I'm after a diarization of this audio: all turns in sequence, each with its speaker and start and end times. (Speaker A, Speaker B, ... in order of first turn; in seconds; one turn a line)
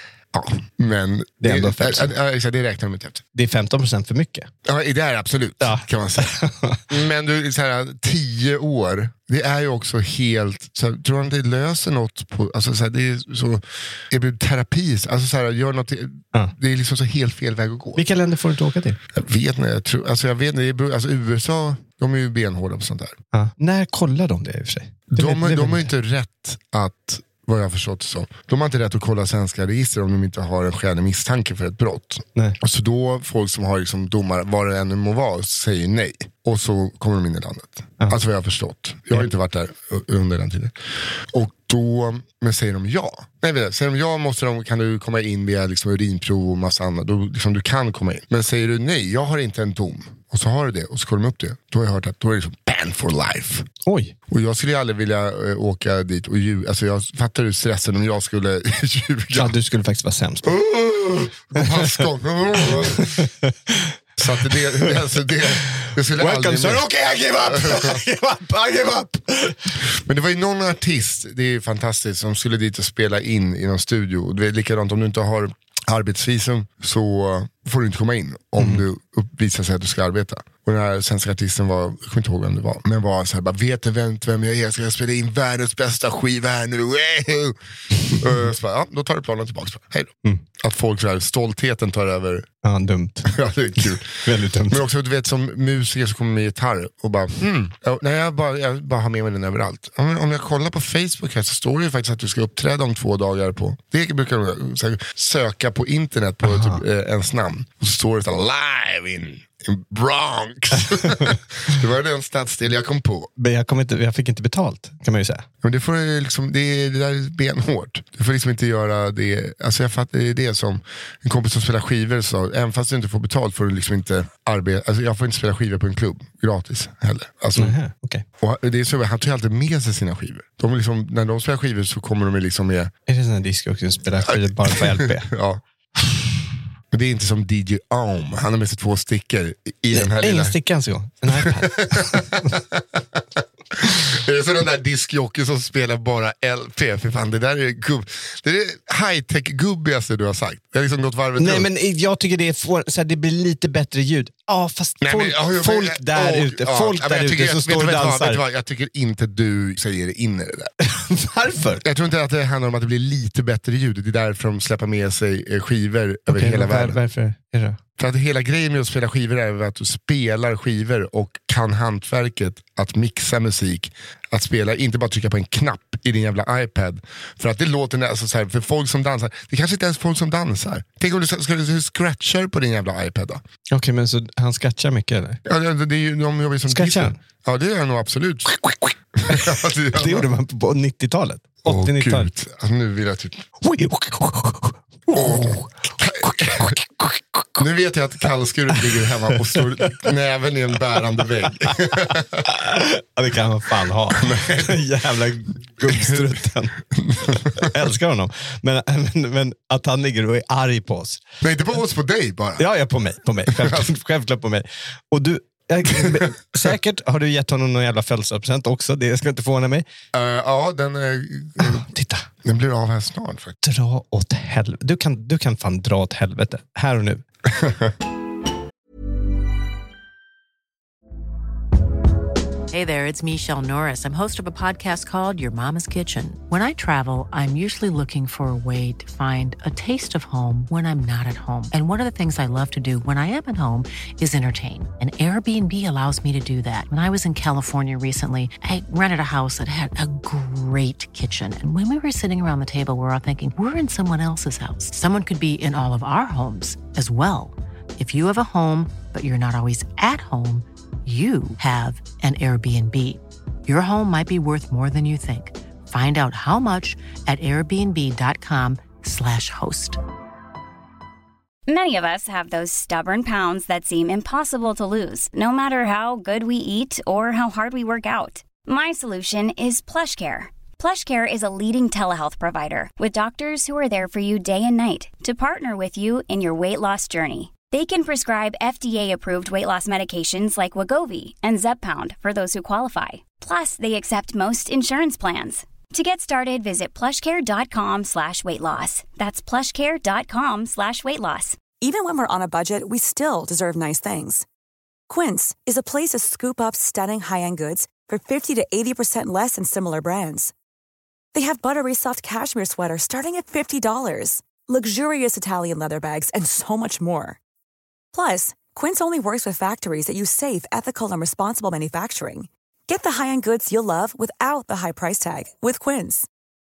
Speaker A: 0.3-3.2
Speaker B: 1.4-2.1
Speaker B: 3.3-4.5
Speaker A: 4.6-6.3
Speaker B: 5.6-6.8
Speaker A: 6.9-18.0
Speaker B: 17.9-19.0
Speaker A: 19.1-23.1
Speaker B: 23.3-25.9
Speaker A: 25.1-40.7
Speaker A: 41.3-53.7
Speaker B: 53.9-54.1
Speaker A: 54.3-59.5
Speaker B: 59.3-60.6
Speaker A: 60.4-63.3
Speaker B: 61.6-62.0
Speaker B: 62.7-63.9
Speaker A: 64.2-66.8
Speaker B: 65.8-69.7
Speaker A: 67.4-68.0
Speaker A: 69.8-92.5
Speaker B: 78.6-78.8
Speaker B: 92.6-94.8
Speaker A: 93.2-113.3
Speaker B: 106.4-106.8
Speaker B: 111.0-111.3
Speaker B: 113.4-115.4
Speaker A: 115.6-127.8
Speaker B: 127.5-128.2
Speaker A: 128.4-132.9
Speaker B: 133.1-135.3
Speaker A: 134.2-135.6
Speaker A: 136.9-140.6
Speaker B: 139.9-142.5
Speaker A: 141.3-151.7
Speaker B: 151.4-158.4
Speaker A: 155.0-160.7
Speaker B: 160.8-161.8
Speaker A: 161.8-167.0
Speaker B: 166.3-167.8
Speaker A: 168.0-183.4
Speaker B: 183.7-185.4
Speaker A: 185.4-188.6
Speaker B: 186.7-187.2
Speaker A: 189.2-190.3
Speaker B: 189.9-192.3
Speaker A: 191.6-193.4
Speaker B: 193.6-197.1
Speaker A: 195.1-202.4
Speaker B: 199.0-200.1
Speaker B: 201.5-201.7
Speaker B: 202.4-206.8
Speaker A: 204.1-204.8
Speaker A: 205.8-206.3
Speaker A: 206.9-207.7
Speaker B: 207.5-211.2
Speaker A: 211.4-212.7
Speaker B: 212.6-219.8
Speaker A: 213.4-213.9
Speaker A: 215.9-216.7
Speaker A: 220.1-221.8
Speaker B: 221.6-222.3
Speaker A: 222.4-223.6
Speaker B: 223.6-227.2
Speaker A: 227.5-227.9
Speaker C: 232.7-270.0
Speaker D: 271.7-301.6
Speaker E: 301.8-304.4
Speaker E: 305.1-310.5
Speaker E: 311.3-317.4
Speaker E: 318.1-326.3